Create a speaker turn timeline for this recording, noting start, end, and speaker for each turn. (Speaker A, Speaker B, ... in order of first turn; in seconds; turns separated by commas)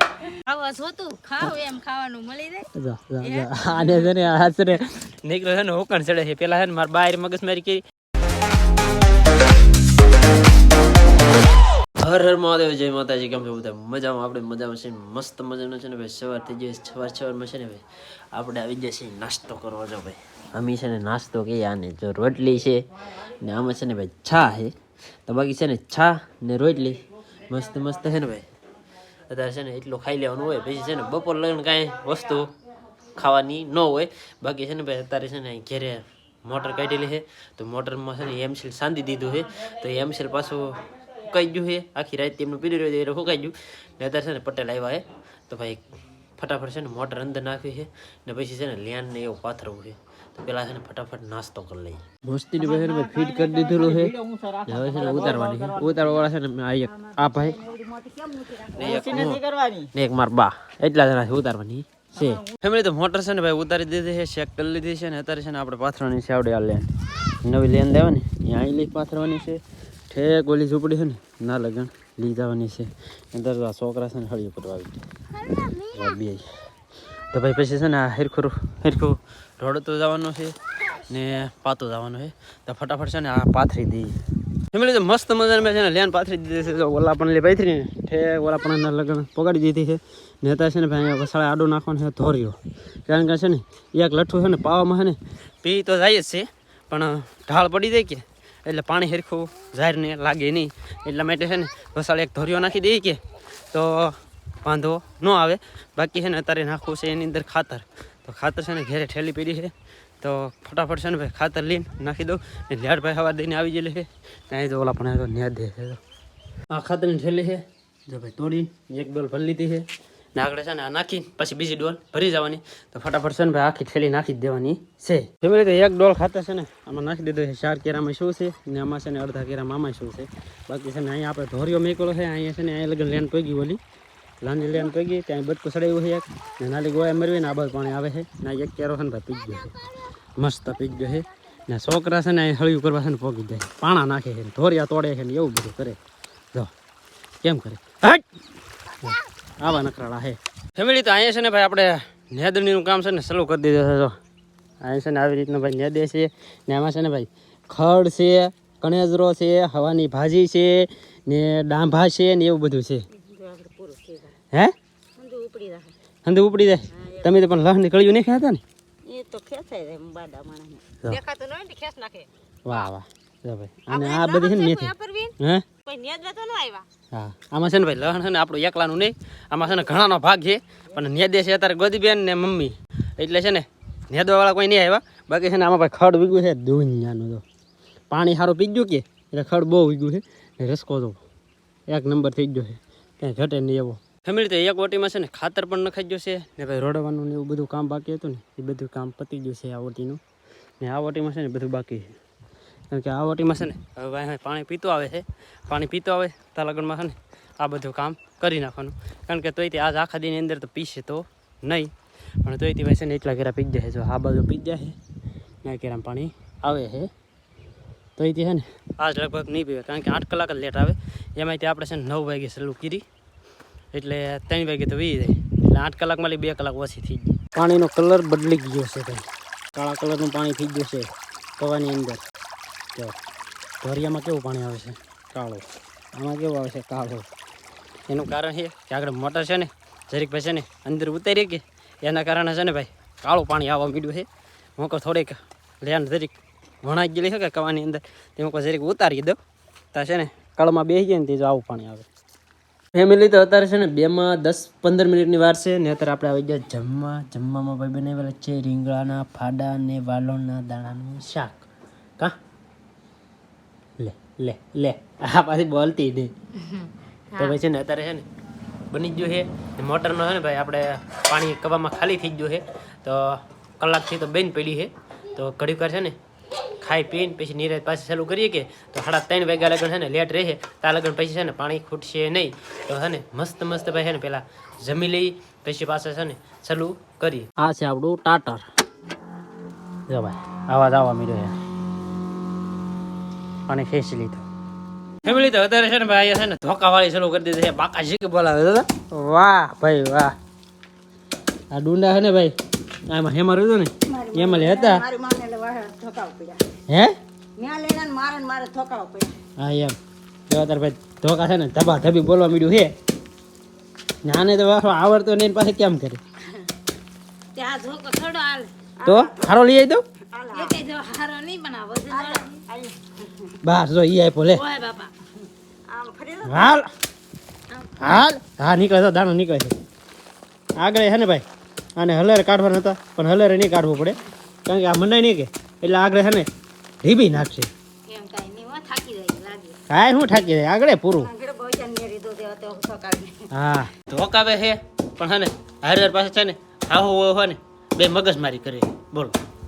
Speaker A: 0.3-2.7, Speaker B: 2.7-7.8, Speaker A: 3.2-4.2, Speaker B: 12.0-28.5, Speaker B: 29.3-32.5, Speaker B: 33.1-45.8, Speaker B: 46.4-57.6, Speaker C: 57.6-59.3, Speaker B: 58.7-75.0, Speaker B: 75.9-76.5, Speaker B: 77.3-84.2, Speaker B: 84.7-103.2, Speaker B: 103.7-116.0, Speaker B: 116.7-133.8, Speaker B: 134.4-139.8, Speaker B: 140.4-146.0, Speaker B: 147.4-148.2, Speaker B: 148.9-154.2, Speaker B: 154.8-163.1, Speaker C: 163.1-164.3, Speaker C: 165.2-165.9, Speaker B: 166.2-168.6, Speaker C: 166.9-167.3, Speaker C: 169.1-172.3, Speaker B: 172.6-175.6, Speaker C: 173.9-175.3, Speaker C: 175.8-176.8, Speaker B: 177.1-187.4, Speaker B: 188.1-191.2, Speaker B: 191.9-200.2, Speaker B: 200.8-202.1, Speaker B: 202.9-211.9, Speaker B: 212.4-215.0, Speaker B: 215.6-217.1, Speaker B: 218.2-223.0, Speaker B: 223.9-232.2, Speaker B: 233.8-237.3, Speaker B: 238.1-249.4, Speaker B: 249.9-252.1, Speaker B: 252.9-261.6, Speaker B: 264.0-266.3, Speaker A: 266.6-267.6, Speaker B: 267.4-268.2, Speaker B: 268.9-276.2, Speaker B: 276.8-288.6, Speaker B: 290.1-291.6, Speaker B: 293.7-294.4, Speaker B: 295.2-300.3, Speaker B: 301.7-302.5, Speaker B: 303.1-305.0, Speaker C: 304.0-306.6, Speaker B: 306.9-307.1, Speaker C: 307.6-309.4, Speaker B: 309.6-310.0, Speaker B: 310.5-312.9, Speaker B: 314.2-316.2, Speaker A: 317.5-318.7, Speaker C: 319.0-319.6, Speaker B: 319.0-320.0, Speaker C: 320.3-320.8, Speaker A: 320.5-322.6, Speaker C: 322.1-323.6, Speaker B: 323.6-324.6, Speaker A: 324.5-325.1, Speaker C: 325.9-326.8, Speaker B: 326.5-326.9, Speaker A: 327.7-328.1, Speaker B: 328.0-329.7, Speaker B: 330.8-331.4, Speaker B: 331.9-336.5, Speaker B: 337.0-337.7, Speaker A: 338.1-339.8, Speaker B: 339.9-341.3, Speaker C: 341.2-343.5, Speaker B: 343.5-349.4